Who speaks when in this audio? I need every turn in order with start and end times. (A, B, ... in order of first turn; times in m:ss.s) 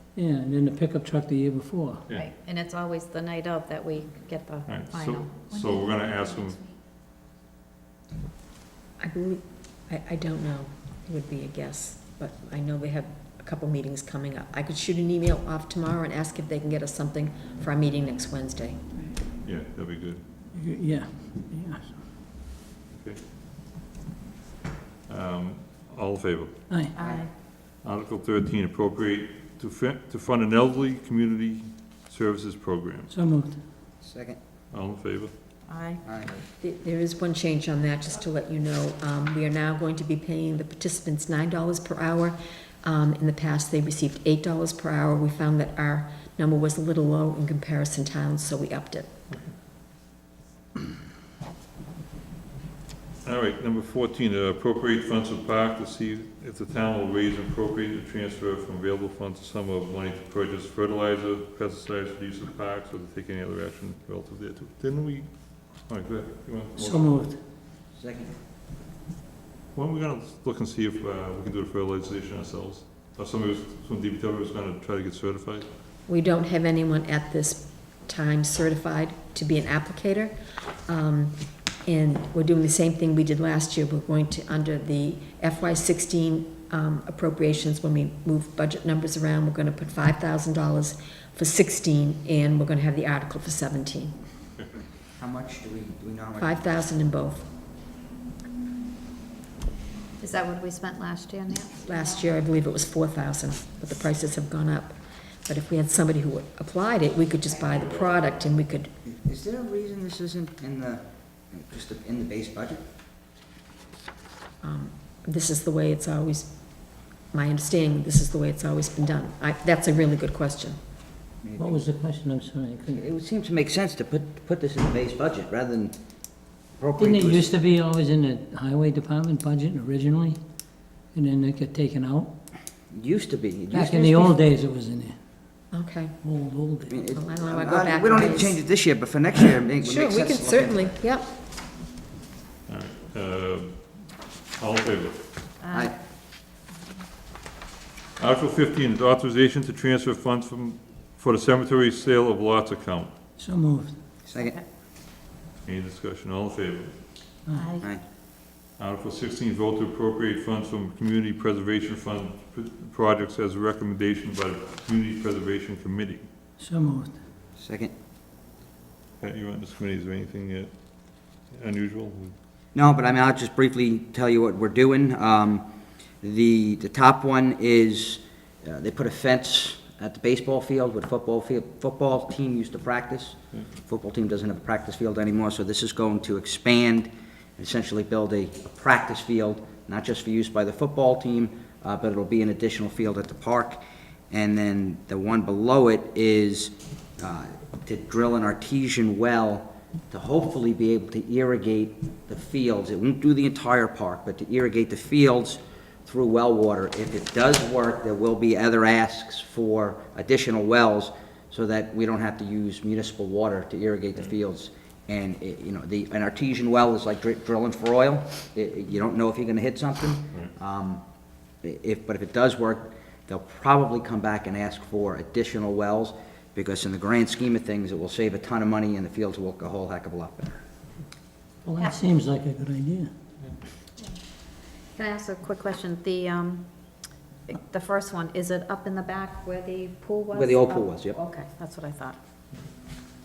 0:00.1-0:02.0 A
0:02.1-0:05.2 B
0:04.7-0:06.7 C
0:09.0-0:18.9 D
0:19.4-0:20.2 C
0:20.5-0:22.0 A
0:25.1-0:26.6 C
0:26.7-0:26.9 A
0:26.9-0:27.3 B
0:27.0-0:27.2 E
0:27.8-0:33.1 C
0:33.1-0:33.6 A
0:34.0-0:34.4 E
0:34.7-0:35.3 C
0:35.7-0:36.0 B
0:36.0-0:36.4 E
0:36.6-0:49.1 D
0:53.2-1:07.2 C
1:06.8-1:07.4 A
1:08.0-1:08.3 E
1:09.7-1:15.7 C
1:16.1-1:20.3 D
1:20.9-1:34.2 D
1:35.2-1:36.6 E
1:36.4-1:37.5 D
1:40.2-1:42.2 B
1:41.8-1:48.9 D
1:49.0-1:52.8 E
1:54.6-2:00.8 D
2:01.4-2:01.8 E
2:01.6-2:03.0 A
2:02.9-2:06.0 E
2:06.8-2:07.5 E
2:07.0-2:10.4 A
2:11.1-2:12.3 A
2:12.9-2:14.4 E
2:13.7-2:15.2 A
2:15.7-2:16.2 D
2:16.2-2:16.9 A
2:16.9-2:21.0 E
2:17.1-2:18.6 D
2:19.8-2:21.3 D
2:22.7-2:25.3 C
2:25.6-2:25.9 B
2:28.2-2:33.1 C
2:33.4-2:34.0 A
2:34.3-2:34.6 E
2:34.3-2:34.6 B
2:35.6-2:37.0 C
2:38.8-2:46.3 C
2:46.6-2:47.2 A
2:47.6-2:47.9 E
2:49.2-2:52.4 C
2:52.7-2:55.7 E
2:56.2-3:41.0 E
3:41.6-3:50.6 E
3:51.6-3:53.1 A
3:54.9-4:02.2 B
4:00.3-4:01.2 E